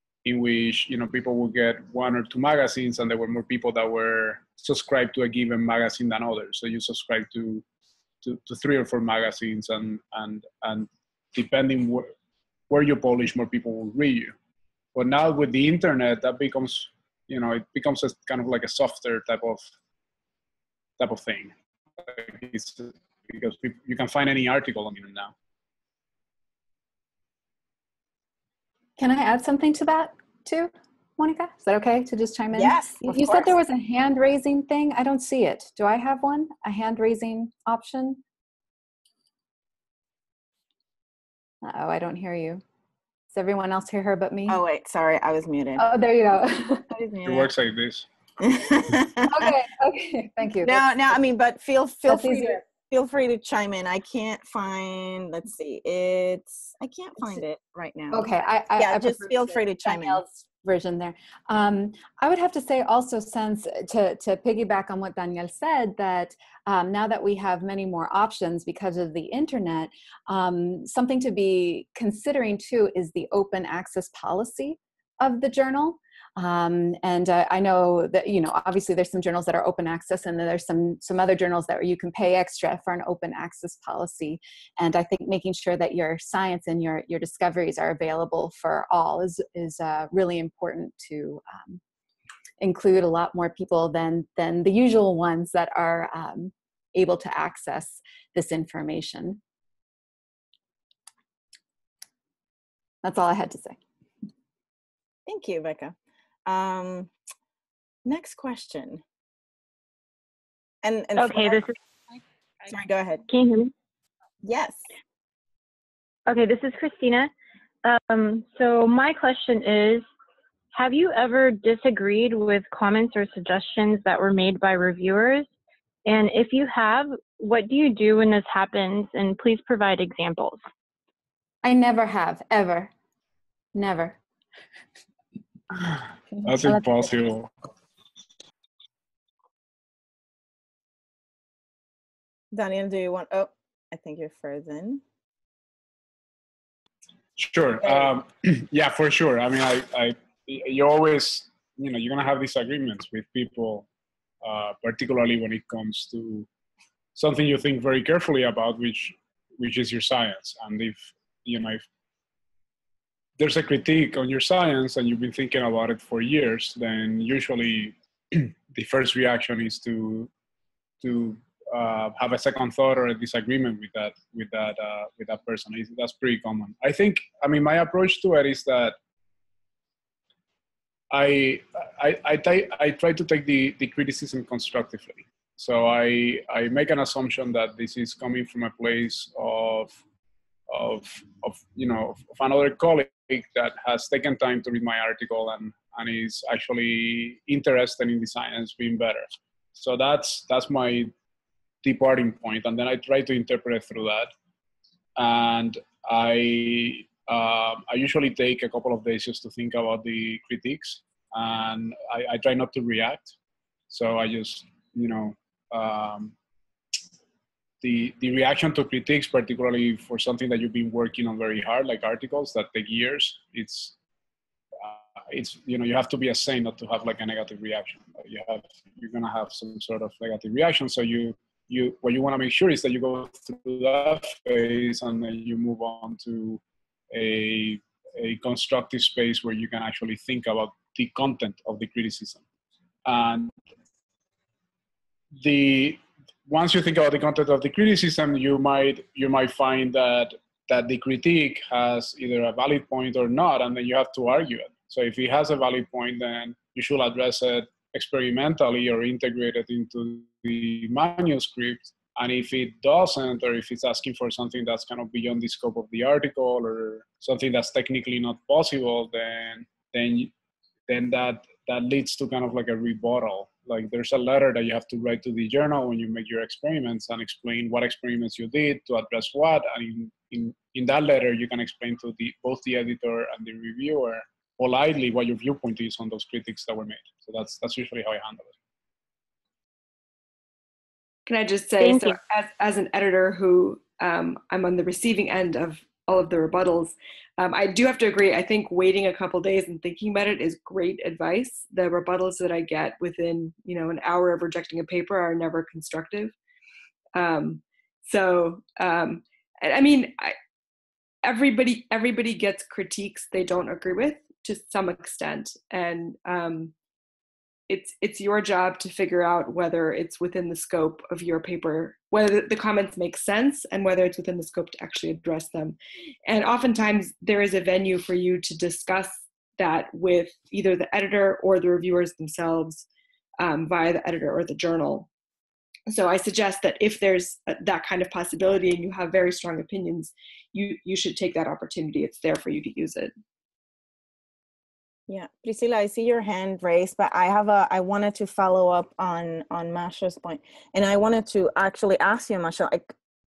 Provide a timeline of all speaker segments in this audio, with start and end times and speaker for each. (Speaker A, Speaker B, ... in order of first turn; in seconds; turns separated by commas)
Speaker A: 0.2-7.6, Speaker A: 8.2-12.1, Speaker A: 12.7-14.3, Speaker A: 14.9-19.6, Speaker A: 21.0-25.3, Speaker B: 29.0-38.2, Speaker C: 32.5-33.5, Speaker B: 41.6-42.6, Speaker B: 43.3-44.6, Speaker C: 44.5-45.9, Speaker B: 45.8-46.9, Speaker C: 46.9-47.5, Speaker A: 47.2-48.0, Speaker C: 48.4-49.5, Speaker B: 49.3-51.2, Speaker C: 50.6-60.2, Speaker B: 52.1-52.6, Speaker B: 58.1-91.8, Speaker B: 92.6-99.4, Speaker B: 103.0-103.8, Speaker C: 105.2-105.9, Speaker C: 106.5-107.1, Speaker C: 108.0-109.0, Speaker C: 110.8-111.6, Speaker D: 111.2-111.7, Speaker C: 112.7-113.2, Speaker D: 113.3-113.7, Speaker C: 114.4-114.8, Speaker D: 116.3-117.3, Speaker D: 117.8-120.0, Speaker D: 120.7-125.5, Speaker D: 126.0-130.6, Speaker B: 131.6-132.9, Speaker B: 133.7-134.2, Speaker B: 136.4-136.8, Speaker A: 136.4-137.5, Speaker C: 142.5-145.0, Speaker A: 147.4-153.8, Speaker C: 147.8-148.1, Speaker A: 154.4-156.5, Speaker A: 157.1-161.8, Speaker A: 163.4-170.3, Speaker A: 171.0-179.0, Speaker A: 181.1-190.0, Speaker A: 190.7-201.1, Speaker A: 201.8-204.3, Speaker A: 205.2-213.3, Speaker A: 213.9-216.3, Speaker A: 217.8-223.9, Speaker A: 224.8-242.4, Speaker A: 243.0-243.5, Speaker A: 245.4-270.3, Speaker A: 270.9-288.5, Speaker E: 291.2-306.3, Speaker D: 291.8-292.1, Speaker E: 307.1-310.4, Speaker E: 311.2-316.7, Speaker E: 317.7-325.8, Speaker E: 326.3-332.9, Speaker E: 333.4-335.1, Speaker E: 335.9-343.1, Speaker C: 345.1-352.9